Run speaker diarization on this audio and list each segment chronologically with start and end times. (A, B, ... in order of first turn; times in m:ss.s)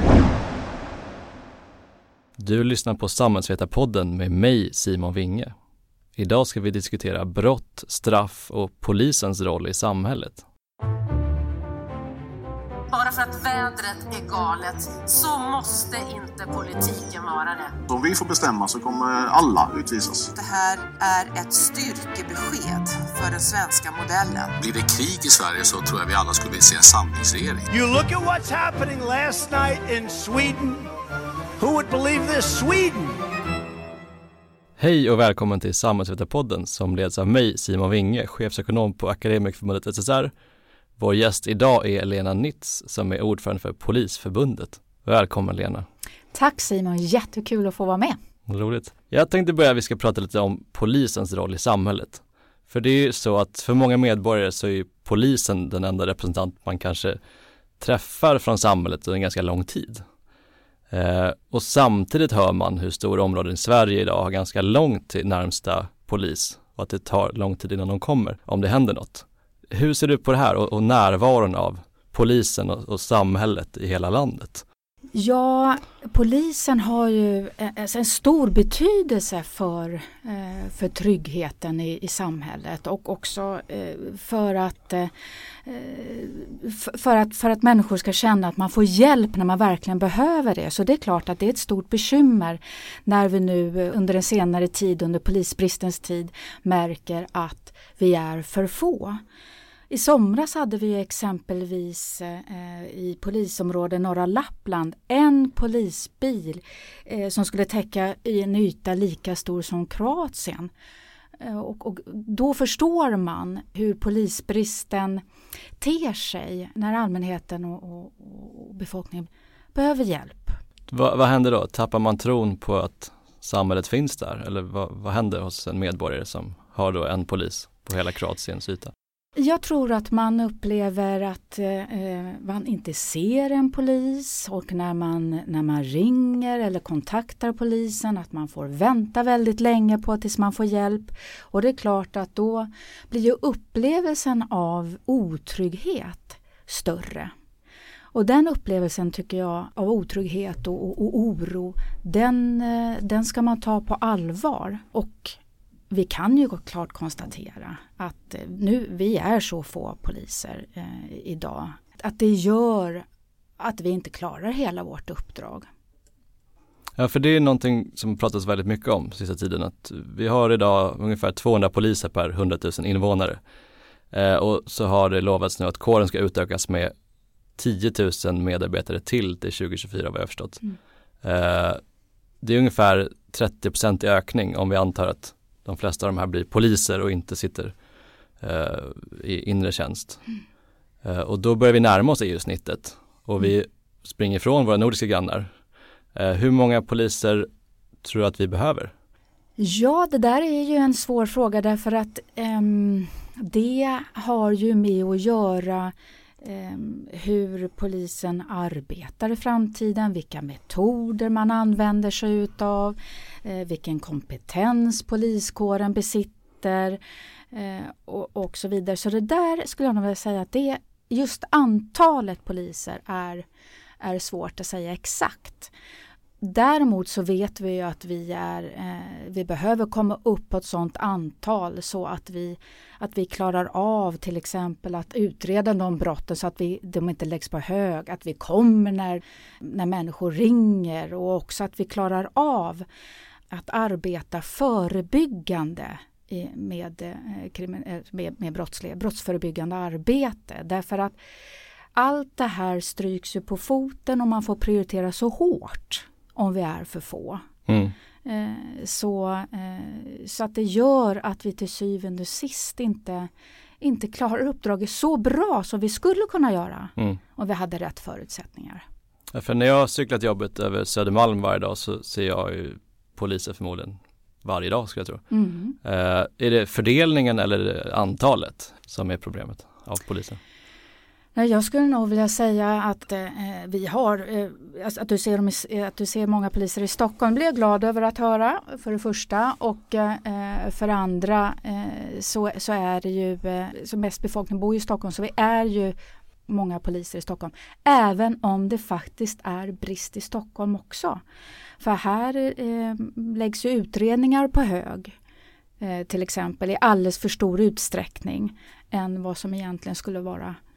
0:02.4-0:05.5 A
0:06.2-0:10.4 A
0:12.9-0:17.8 B
0:17.9-0:20.3 C
0:20.3-0:24.6 B
0:24.6-0:27.7 D
0:27.7-0:30.9 E
0:31.6-0:33.2 E
0:34.8-0:40.3 A
0:41.0-0:45.9 A
0:46.3-0:48.2 F
0:48.5-0:57.2 A
0:57.8-1:00.0 A
1:00.9-1:14.6 A
1:15.1-1:25.1 F
1:25.6-1:39.2 F
1:39.9-1:50.7 F
1:51.4-1:55.2 F
1:55.8-2:00.6 F
2:00.9-2:08.9 A
2:09.4-2:27.3 F
2:28.1-2:35.4 F
2:35.9-2:43.0 F
2:43.6-2:45.7 F
2:47.0-2:53.4 A
2:54.1-2:56.9 A
2:57.6-3:00.6 A
3:01.2-3:01.8 A
3:02.4-3:07.7 A
3:08.4-3:10.2 A
3:11.0-3:15.5 A
3:16.1-3:17.5 A
3:18.0-3:18.9 A
3:19.6-3:37.0 F
3:37.5-3:43.4 F
3:44.0-3:45.7 F
3:46.4-4:02.8 F
4:03.5-4:11.2 F
4:11.9-4:17.5 F
4:17.7-4:17.9 A
4:18.2-4:23.3 F
4:23.8-4:28.8 F
4:29.3-4:35.3 A
4:35.3-4:35.8 F
4:35.8-4:40.4 A
4:41.4-4:56.0 F
4:56.5-5:01.2 F
5:01.8-5:05.1 F
5:05.8-5:10.6 F